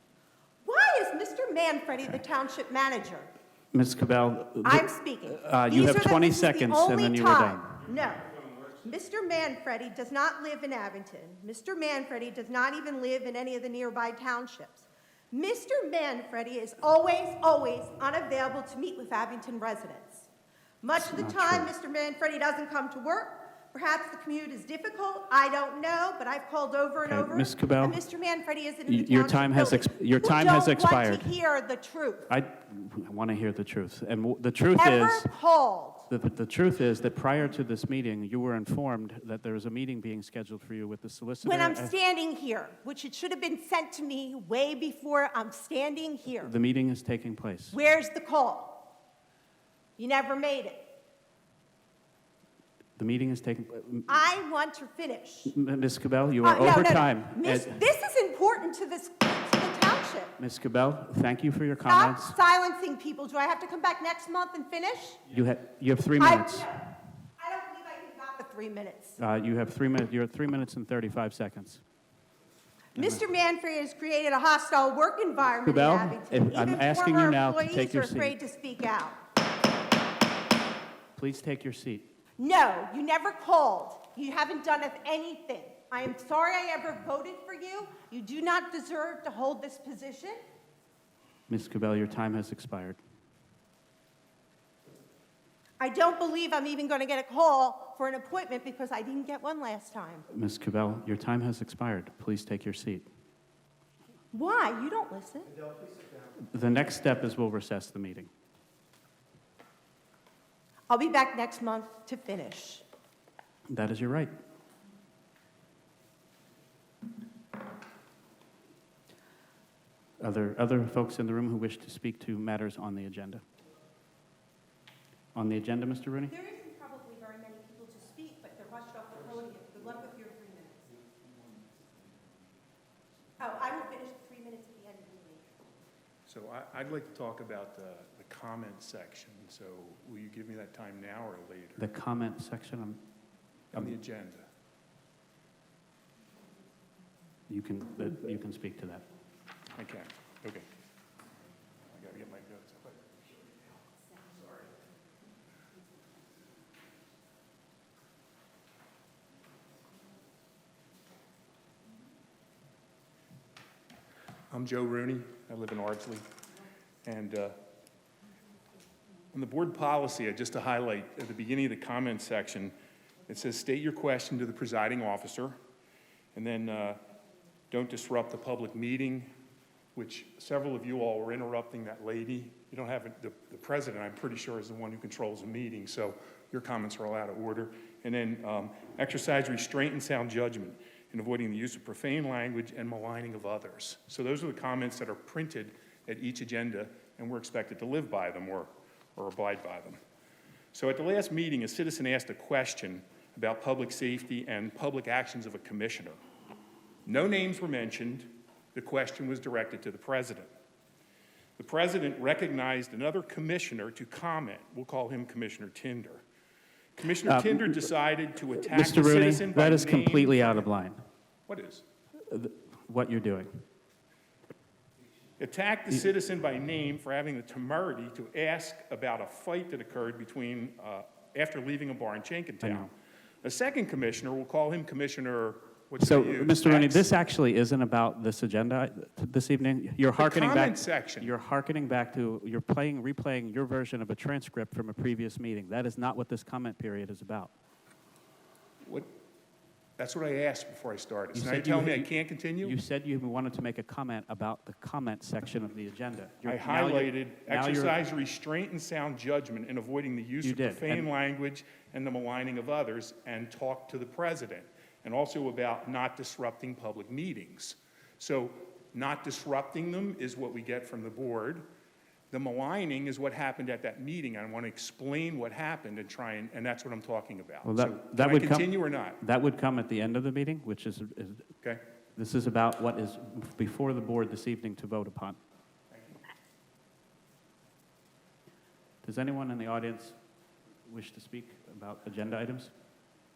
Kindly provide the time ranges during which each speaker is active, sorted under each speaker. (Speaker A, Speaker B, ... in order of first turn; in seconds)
Speaker A: 0.6-3.3, 4.6-20.3, 20.8-32.3, 34.8-36.1, 41.4-46.5, 47.7-48.8, 50.0-50.8, 54.1-55.5, 56.4-60.4, 61.8-65.2, 66.2-69.2, 72.9-79.2, 82.4-90.4, 95.8-100.2, 104.3-105.7, 110.9-112.8, 126.3-130.9, 133.4-135.4
Speaker B: 3.7-7.7, 21.0-21.7, 27.0-28.0, 28.9-31.3, 32.3-35.3, 36.1-41.9, 46.4-47.8, 53.0-54.2, 55.5-57.8, 60.4-62.3, 65.3-66.7, 69.2-71.8, 75.6-78.3, 81.2-82.0, 91.5-93.0, 100.3-103.1, 106.4-108.3, 113.7-114.3, 120.2-123.4, 125.3-126.3, 141.8-143.0, 147.5-149.0, 217.2-217.9, 218.5-221.0, 222.3-223.5, 232.6-232.9, 236.0-247.5, 251.3-258.0, 260.4-261.1, 277.6-281.5, 282.1-285.4, 289.0-290.1, 290.9-292.7
Speaker C: 136.3-141.8, 143.7-144.5, 149.8-150.7, 151.9-153.2, 164.5-166.2, 167.0-167.5, 169.3-172.7, 173.3-175.5, 176.3-177.0, 177.7-179.3, 179.9-200.0, 200.7-206.2, 207.1-210.5, 211.6-216.2, 216.9-220.7, 221.5-221.8, 225.4-232.9, 233.4-237.1, 240.2-241.3, 248.8-249.1, 250.0-252.8, 256.4-271.6, 272.3-279.2, 285.9-286.2